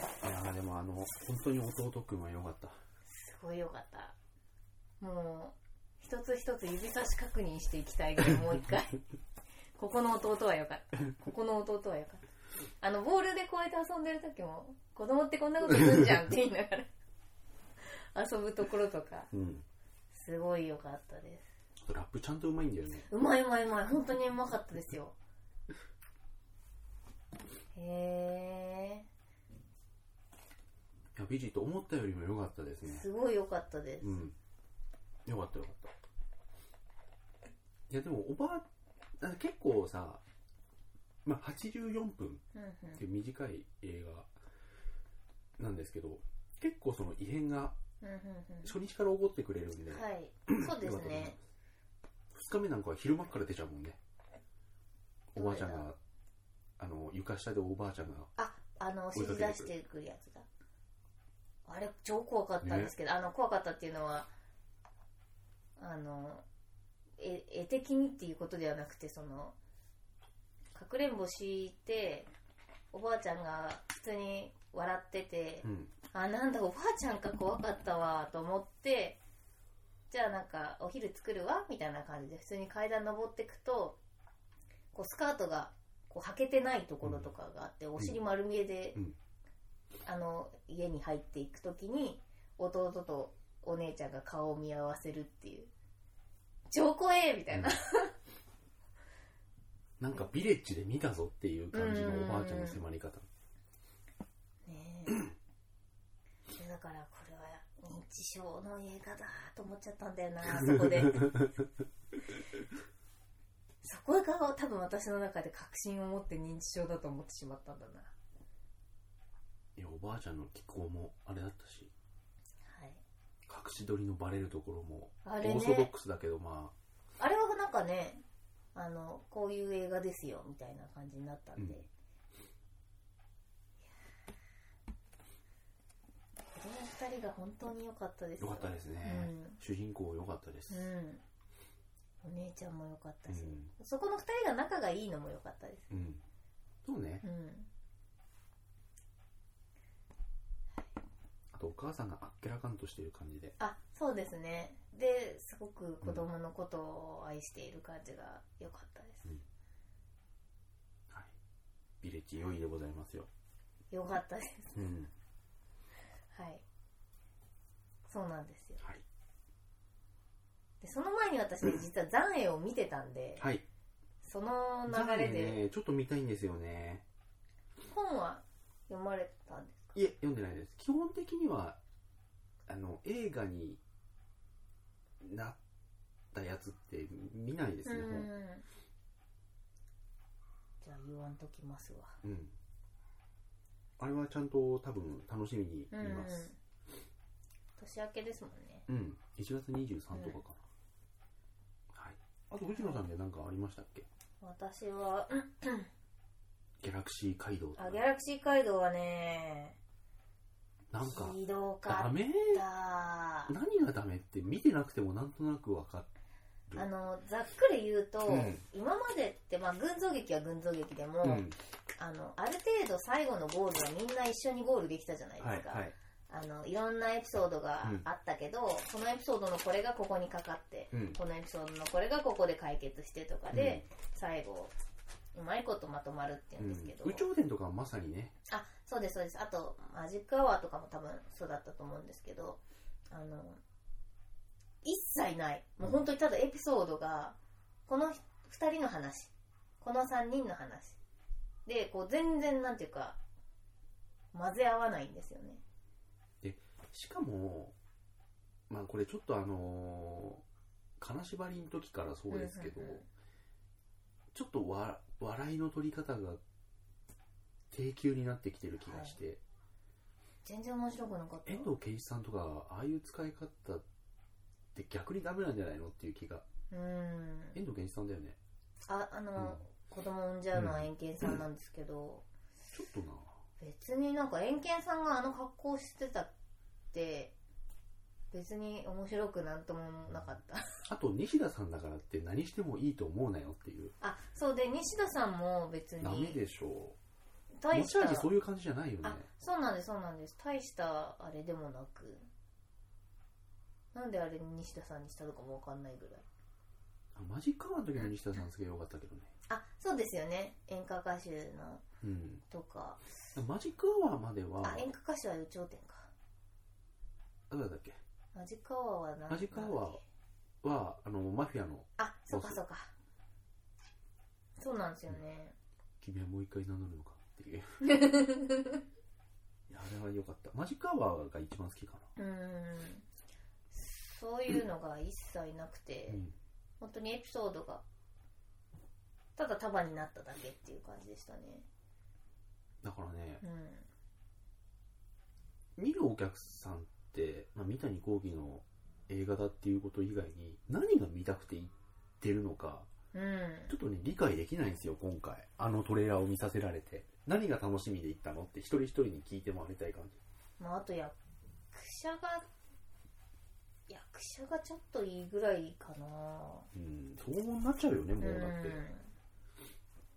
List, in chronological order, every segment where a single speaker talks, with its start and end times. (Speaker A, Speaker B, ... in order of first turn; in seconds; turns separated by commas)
Speaker A: 0.2-2.8, Speaker B: 3.1-4.2, Speaker B: 5.0-9.0, Speaker B: 9.8-12.2, Speaker B: 12.8-16.9, Speaker A: 15.7-16.1, Speaker B: 18.1-19.3, Speaker A: 19.3-19.6, Speaker B: 20.1-21.5, Speaker A: 21.8-23.1, Speaker B: 23.1-25.2, Speaker B: 27.8-29.1, Speaker A: 31.2-33.0, Speaker B: 32.9-34.2, Speaker A: 34.0-34.4, Speaker A: 35.3-35.9, Speaker A: 37.9-38.7, Speaker A: 39.2-40.2, Speaker A: 41.2-42.4, Speaker B: 42.5-43.0, Speaker A: 43.0-44.3, Speaker A: 45.6-47.8, Speaker B: 48.0-48.8, Speaker A: 48.6-51.4, Speaker B: 49.9-51.4, Speaker A: 52.3-54.0, Speaker A: 55.3-56.0, Speaker B: 55.4-55.9, Speaker A: 56.8-58.3, Speaker B: 58.4-60.5, Speaker A: 59.1-59.7, Speaker B: 61.7-64.3, Speaker A: 62.6-62.9, Speaker B: 65.8-66.4, Speaker B: 67.2-69.5, Speaker B: 70.7-72.3, Speaker B: 72.9-79.2, Speaker A: 75.6-75.9, Speaker B: 80.1-84.0, Speaker B: 84.9-89.0, Speaker A: 87.0-87.3, Speaker B: 90.0-95.7, Speaker B: 96.7-98.2, Speaker A: 100.0-103.3, Speaker B: 101.7-102.8, Speaker B: 104.7-105.3, Speaker B: 106.5-111.4, Speaker A: 110.6-111.5, Speaker B: 113.8-118.1, Speaker A: 119.8-121.9, Speaker B: 122.7-123.0, Speaker A: 123.5-126.8, Speaker B: 125.2-125.9, Speaker B: 127.2-128.2, Speaker B: 128.8-131.9, Speaker B: 136.6-139.6, Speaker A: 138.4-140.9, Speaker B: 140.7-141.2, Speaker B: 142.2-145.9, Speaker A: 143.3-143.7, Speaker A: 145.9-146.2, Speaker A: 146.8-147.2, Speaker B: 147.2-147.7, Speaker A: 151.5-153.6, Speaker B: 153.6-159.3, Speaker A: 162.0-163.3, Speaker B: 163.9-164.8, Speaker A: 164.8-165.1, Speaker B: 166.3-166.6, Speaker B: 168.1-168.8, Speaker B: 170.8-173.5, Speaker A: 173.4-173.7, Speaker B: 174.2-175.6, Speaker A: 174.9-177.0, Speaker B: 177.9-180.0, Speaker A: 179.9-181.8, Speaker A: 182.7-183.8, Speaker A: 185.2-185.6, Speaker A: 186.3-188.3, Speaker B: 187.8-188.7, Speaker B: 190.8-192.2, Speaker A: 192.2-192.5, Speaker A: 194.0-196.5, Speaker B: 195.9-196.6, Speaker B: 197.8-198.9, Speaker A: 198.9-200.6, Speaker B: 200.1-200.4, Speaker A: 201.9-204.1, Speaker B: 202.8-203.0, Speaker B: 204.4-205.9, Speaker A: 206.8-208.0, Speaker B: 207.8-209.8, Speaker A: 210.9-212.6, Speaker B: 211.0-213.5, Speaker A: 213.5-216.1, Speaker B: 216.8-234.8, Speaker A: 218.3-218.6, Speaker A: 221.2-221.6, Speaker A: 225.4-225.9, Speaker A: 230.9-231.2, Speaker A: 233.5-233.8, Speaker B: 235.3-237.3, Speaker A: 236.6-238.3, Speaker B: 238.5-243.6, Speaker B: 244.8-247.4, Speaker B: 247.9-251.0, Speaker B: 251.7-253.2, Speaker B: 254.3-255.6, Speaker A: 256.4-257.8, Speaker A: 258.7-260.4, Speaker A: 261.0-263.0, Speaker B: 262.3-263.1, Speaker A: 264.3-266.4, Speaker A: 267.7-269.4, Speaker B: 268.9-269.2, Speaker B: 270.4-271.7, Speaker A: 271.5-273.8, Speaker A: 274.7-276.4, Speaker B: 276.7-277.6, Speaker A: 277.6-278.4, Speaker B: 278.9-282.2, Speaker A: 280.6-281.4, Speaker A: 282.7-283.3, Speaker B: 283.6-286.3, Speaker B: 286.9-287.3, Speaker B: 288.3-290.8, Speaker A: 290.9-293.9, Speaker B: 294.0-296.4, Speaker A: 296.0-297.0, Speaker B: 297.6-298.3, Speaker A: 297.7-299.3, Speaker B: 299.0-302.3, Speaker B: 303.9-306.2, Speaker A: 307.1-309.3, Speaker B: 309.5-311.8, Speaker A: 312.0-312.4, Speaker B: 312.5-313.0, Speaker A: 313.4-314.9, Speaker B: 314.6-316.1, Speaker A: 317.5-318.0, Speaker B: 318.3-320.0, Speaker A: 319.3-320.0, Speaker A: 320.6-322.6, Speaker B: 322.0-322.9, Speaker B: 324.6-325.6, Speaker A: 326.0-327.8, Speaker B: 327.8-328.8, Speaker A: 329.7-332.1, Speaker B: 332.2-333.1, Speaker B: 333.7-336.2, Speaker B: 336.8-337.8, Speaker B: 339.4-341.7, Speaker A: 342.8-343.4, Speaker B: 343.4-343.9, Speaker A: 345.8-352.9, Speaker B: 353.1-353.8, Speaker A: 353.7-360.2, Speaker B: 360.6-361.2, Speaker B: 361.7-362.5, Speaker B: 363.9-366.7, Speaker A: 366.7-368.8, Speaker B: 368.2-369.1